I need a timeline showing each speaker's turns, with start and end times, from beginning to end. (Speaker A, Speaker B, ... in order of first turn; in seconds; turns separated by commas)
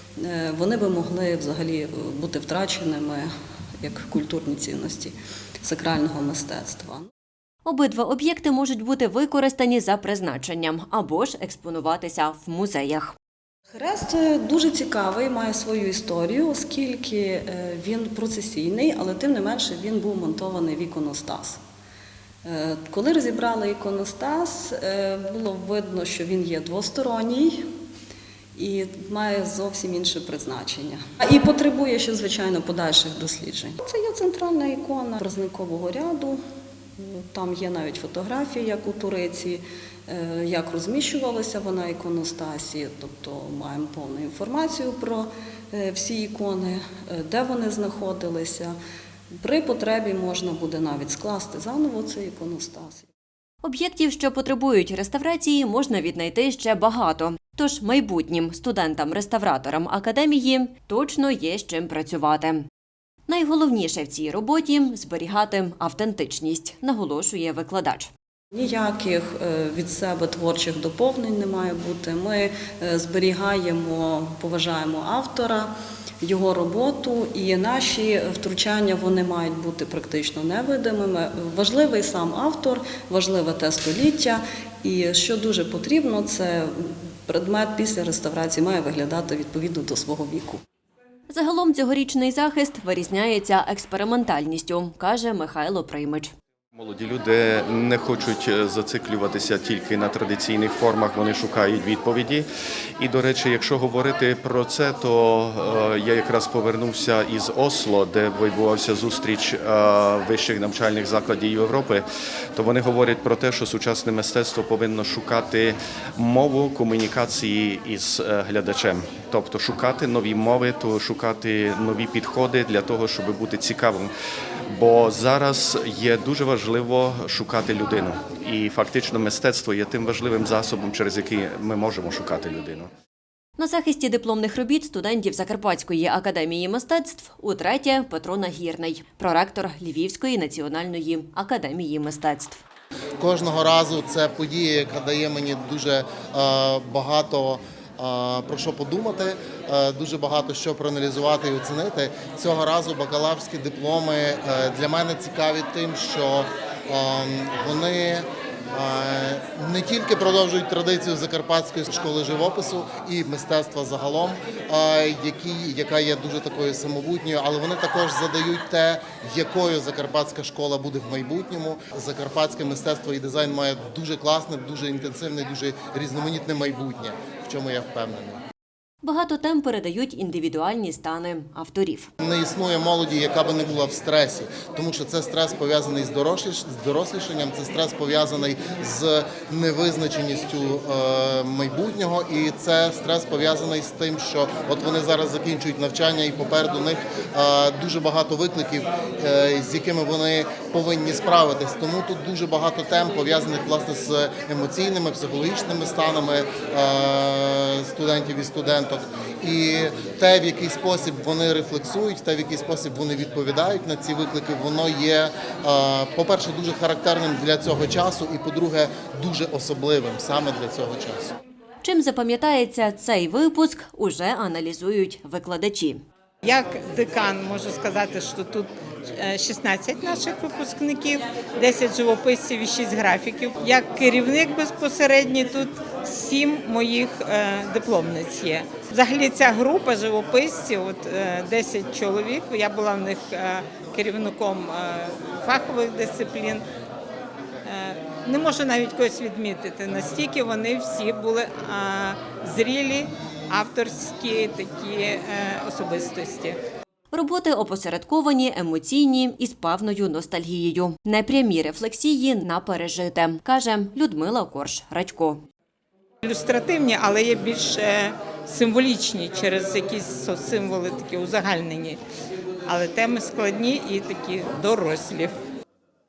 Speaker A: 0.2-3.3, Speaker A: 3.8-7.1, Speaker B: 7.7-13.2, Speaker A: 13.7-21.6, Speaker A: 22.4-27.7, Speaker A: 28.6-36.4, Speaker A: 37.0-48.8, Speaker A: 49.4-53.1, Speaker B: 53.6-62.6, Speaker B: 63.3-68.1, Speaker A: 68.5-90.6, Speaker B: 91.3-96.3, Speaker C: 96.8-102.5, Speaker C: 103.0-124.1, Speaker C: 124.7-132.9, Speaker B: 133.6-142.6, Speaker D: 143.2-178.4, Speaker B: 179.0-182.1, Speaker D: 182.2-221.3, Speaker B: 221.8-226.0, Speaker E: 226.4-246.6, Speaker E: 247.7-256.6, Speaker B: 257.1-265.4, Speaker E: 266.2-272.0, Speaker E: 272.7-275.4